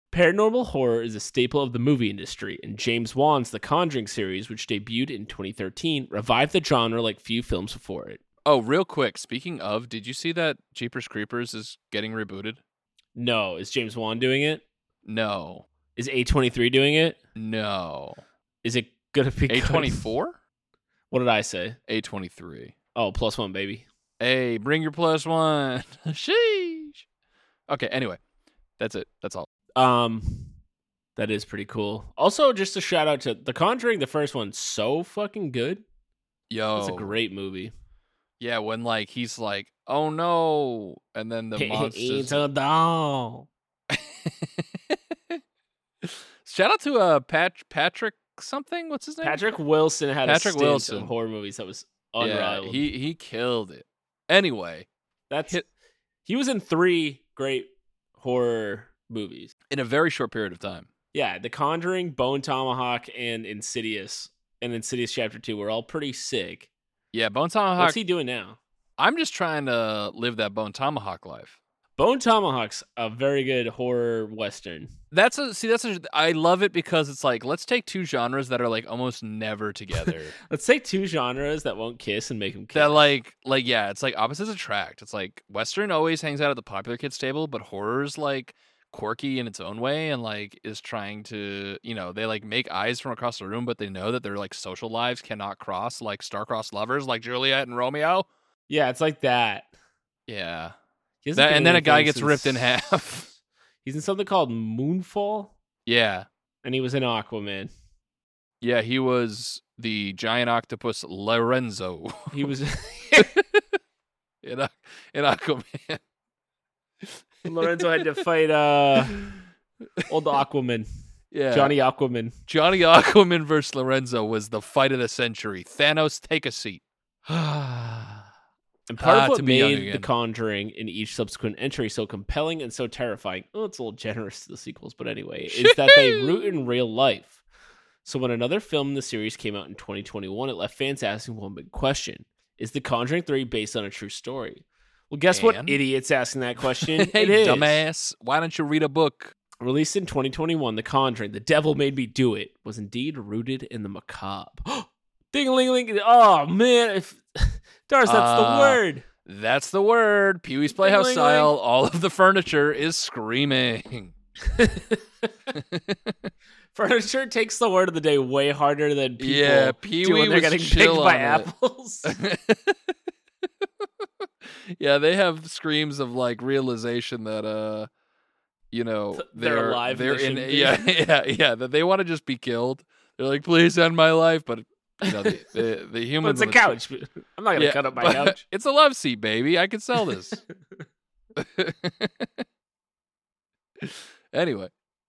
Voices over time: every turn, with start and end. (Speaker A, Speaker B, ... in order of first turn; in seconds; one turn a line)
Speaker A: 0.1-8.2
Speaker B: 8.4-12.6
Speaker A: 13.2-14.6
Speaker B: 15.0-15.7
Speaker A: 15.9-17.2
Speaker B: 17.4-18.2
Speaker A: 18.6-20.1
Speaker B: 19.5-20.4
Speaker A: 21.1-21.8
Speaker B: 21.9-22.7
Speaker A: 22.9-23.9
Speaker B: 24.2-27.0
Speaker B: 27.7-28.2
Speaker B: 28.8-29.5
Speaker A: 29.8-30.5
Speaker A: 31.1-35.8
Speaker B: 36.5-37.1
Speaker A: 36.8-37.7
Speaker B: 38.4-42.4
Speaker A: 41.5-43.5
Speaker B: 43.9-45.4
Speaker B: 46.0-49.4
Speaker A: 49.2-52.9
Speaker B: 50.2-51.1
Speaker B: 52.2-54.9
Speaker A: 55.3-55.6
Speaker A: 56.2-59.5
Speaker B: 59.7-60.9
Speaker A: 61.1-66.7
Speaker B: 67.1-68.0
Speaker A: 67.8-68.6
Speaker B: 69.0-71.6
Speaker A: 72.0-74.9
Speaker B: 75.1-80.3
Speaker A: 80.0-83.0
Speaker B: 82.7-98.3
Speaker A: 98.7-99.7
Speaker B: 100.3-100.7
Speaker A: 101.2-102.8
Speaker B: 101.3-103.3
Speaker A: 103.8-105.5
Speaker B: 105.8-106.3
Speaker A: 106.6-107.7
Speaker B: 108.6-112.5
Speaker A: 112.3-113.3
Speaker B: 113.1-113.6
Speaker B: 114.4-116.0
Speaker B: 117.0-117.8
Speaker A: 117.4-119.2
Speaker A: 120.1-120.9
Speaker B: 121.3-121.7
Speaker A: 121.5-122.3
Speaker B: 122.5-126.8
Speaker A: 127.3-128.2
Speaker A: 128.9-137.4
Speaker B: 129.0-130.1
Speaker B: 135.5-136.5
Speaker A: 138.0-147.8
Speaker B: 145.3-145.8
Speaker B: 146.8-149.3
Speaker A: 149.6-159.1
Speaker B: 158.0-164.1
Speaker A: 160.8-161.5
Speaker A: 164.4-165.3
Speaker B: 165.5-166.3
Speaker A: 166.7-172.2
Speaker B: 169.2-171.5
Speaker B: 172.0-172.9
Speaker B: 173.6-177.9
Speaker B: 178.7-186.8
Speaker A: 179.1-180.8
Speaker A: 185.0-185.4
Speaker A: 186.2-188.4
Speaker B: 187.5-190.4
Speaker B: 191.3-192.4
Speaker B: 193.8-194.7